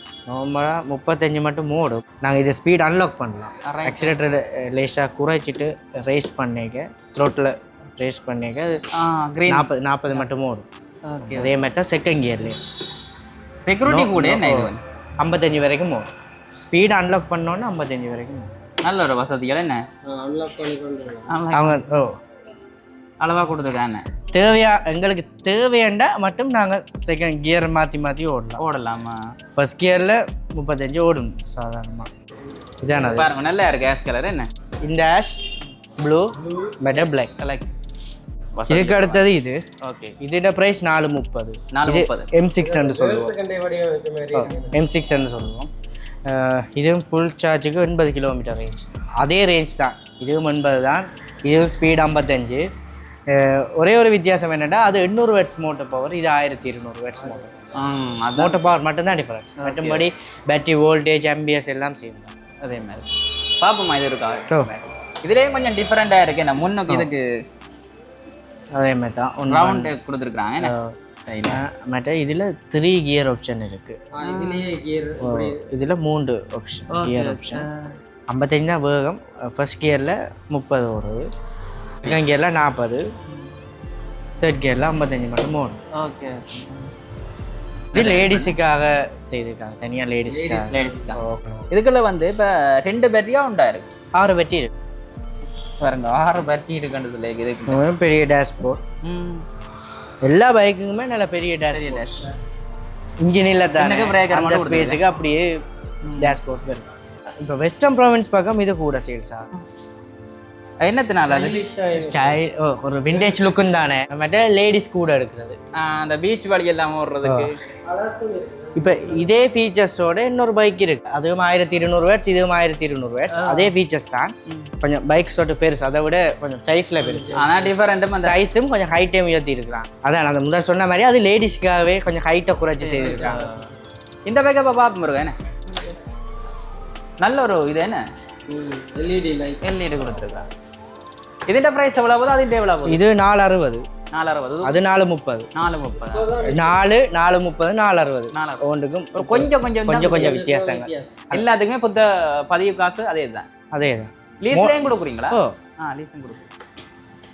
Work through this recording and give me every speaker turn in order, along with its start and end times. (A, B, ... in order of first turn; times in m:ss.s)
0:00.3-0:08.8 A
0:03.6-0:04.2 B
0:08.9-0:10.2 B
0:09.5-0:10.6 A
0:11.0-0:11.5 B
0:11.3-0:12.6 A
0:13.6-0:14.8 B
0:13.9-0:18.5 A
0:18.8-0:19.8 B
0:20.0-0:21.3 C
0:21.3-0:22.0 B
0:21.5-0:22.1 A
0:23.2-0:24.0 B
0:24.3-0:28.6 A
0:28.6-0:29.2 B
0:29.5-0:32.1 A
0:32.8-0:33.3 A
0:33.0-0:34.5 B
0:34.8-0:35.4 A
0:36.0-0:37.3 A
0:36.4-0:37.0 C
0:37.4-0:37.7 B
0:38.6-0:39.2 B
0:38.7-0:39.6 A
0:39.8-0:40.1 B
0:40.2-0:43.3 A
0:41.7-0:42.3 B
0:42.6-0:44.8 C
0:44.3-0:45.7 A
0:46.3-0:52.6 A
0:53.3-0:57.5 A
0:57.7-0:58.6 B
0:58.4-1:02.3 A
0:59.6-1:00.1 B
1:02.6-1:03.1 B
1:03.6-1:07.2 B
1:08.8-1:09.9 A
1:09.5-1:10.7 B
1:10.6-1:10.9 A
1:11.2-1:11.6 B
1:11.5-1:14.0 A
1:14.1-1:15.6 C
1:14.2-1:14.7 B
1:15.2-1:17.6 A
1:16.9-1:17.9 B
1:18.3-1:21.3 A
1:22.0-1:23.0 A
1:24.4-1:25.8 A
1:26.0-1:26.9 B
1:27.9-1:28.5 B
1:27.9-1:31.6 A
1:30.2-1:31.1 C
1:30.7-1:33.9 B
1:34.2-1:34.7 A
1:35.8-1:37.8 B
1:37.7-1:38.8 A
1:39.0-1:39.4 B
1:40.2-1:42.3 A
1:41.7-1:42.3 B
1:43.2-1:45.5 A
1:43.8-1:45.0 B
1:46.0-1:46.4 B
1:46.1-1:46.8 A
1:47.4-1:49.5 A
1:50.8-1:51.6 B
1:51.3-1:52.4 C
1:51.9-1:55.6 A
1:53.1-1:53.6 C
1:55.7-1:57.6 B
1:57.2-1:57.5 A
1:57.8-1:59.3 C
1:58.8-2:07.5 A
2:03.3-2:03.7 B
2:07.0-2:07.7 C
2:07.3-2:08.4 B
2:08.1-2:13.4 A
2:12.8-2:13.7 B
2:14.2-2:15.3 B
2:17.2-2:18.0 B
2:18.5-2:19.6 C
2:19.6-2:20.5 B
2:21.5-2:23.0 B
2:22.9-2:23.8 A
2:24.1-2:24.7 B
2:24.6-2:25.5 A
2:25.5-2:26.3 B
2:26.0-2:26.8 C
2:26.4-2:31.4 A
2:28.3-2:28.6 B
2:29.1-2:30.4 B
2:30.0-2:31.2 C
2:31.3-2:33.4 B
2:33.7-2:35.5 A
2:34.4-2:36.4 B